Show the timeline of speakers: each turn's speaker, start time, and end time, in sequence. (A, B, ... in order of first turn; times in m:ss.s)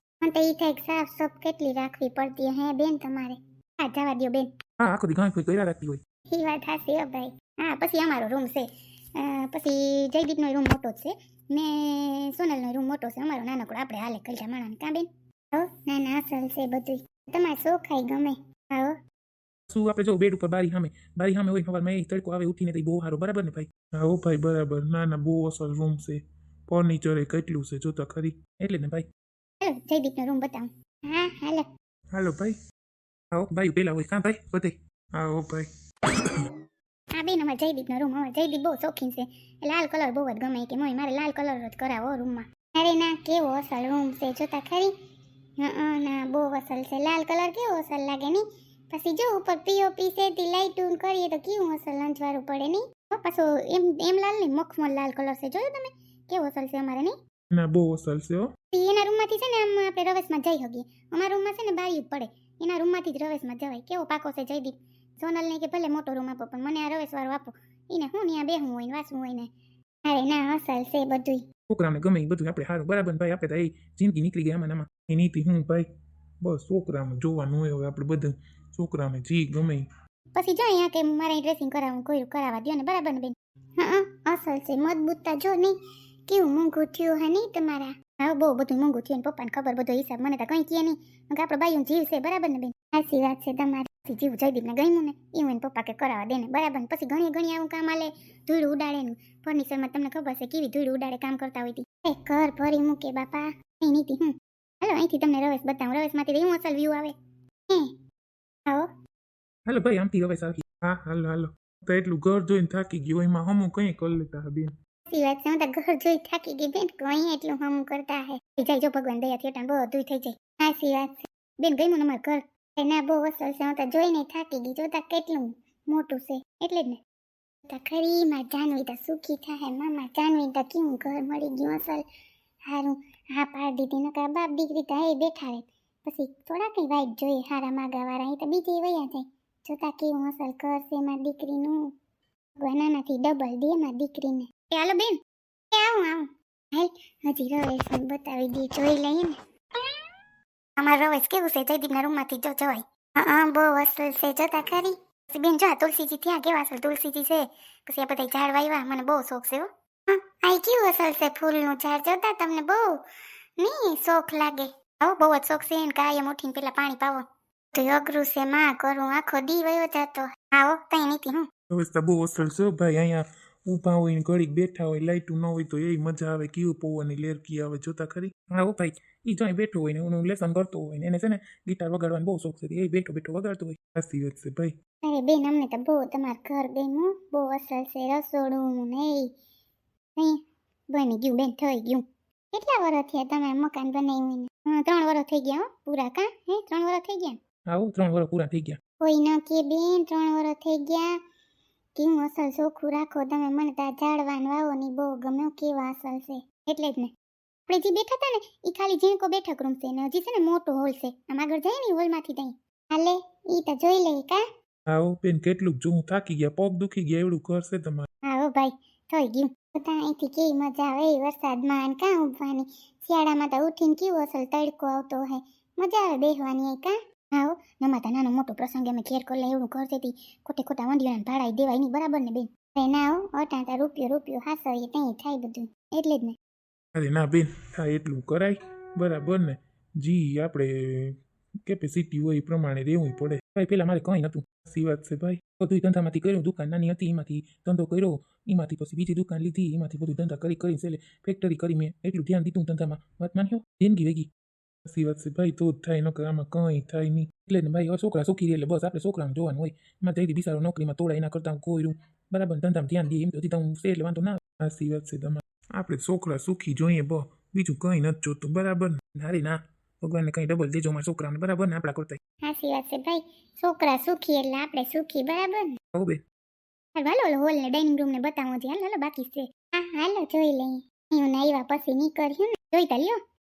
0:00.2-0:04.5 A
0:04.8-0:06.0 B
0:06.3-0:19.0 A
0:19.7-0:29.0 B
0:29.6-0:31.7 A
0:32.1-0:32.5 B
0:33.3-0:35.7 B
0:37.2-0:44.9 A
0:45.6-0:57.1 A
0:57.5-0:58.5 B
0:58.7-1:09.5 A
1:10.0-1:11.4 A
1:11.7-1:15.9 B
1:16.4-1:19.8 B
1:20.3-1:25.7 A
1:26.3-1:47.1 A
1:49.6-1:54.7 B
1:55.1-2:07.0 A
2:07.6-2:12.0 A
2:12.7-2:21.8 A
2:22.6-2:25.2 A
2:25.7-2:29.4 A
2:30.8-2:43.0 A
2:43.6-2:51.5 A
2:51.7-3:04.7 B
3:05.0-3:09.3 A
3:10.9-3:17.4 A
3:17.7-3:18.8 B
3:19.0-3:21.1 A
3:22.0-3:27.1 A
3:27.7-3:34.4 A
3:34.9-3:38.1 B
3:38.2-3:56.4 A
3:57.0-4:14.3 B
4:14.8-4:32.2 B
4:32.4-4:35.7 A
4:37.0-4:43.2 A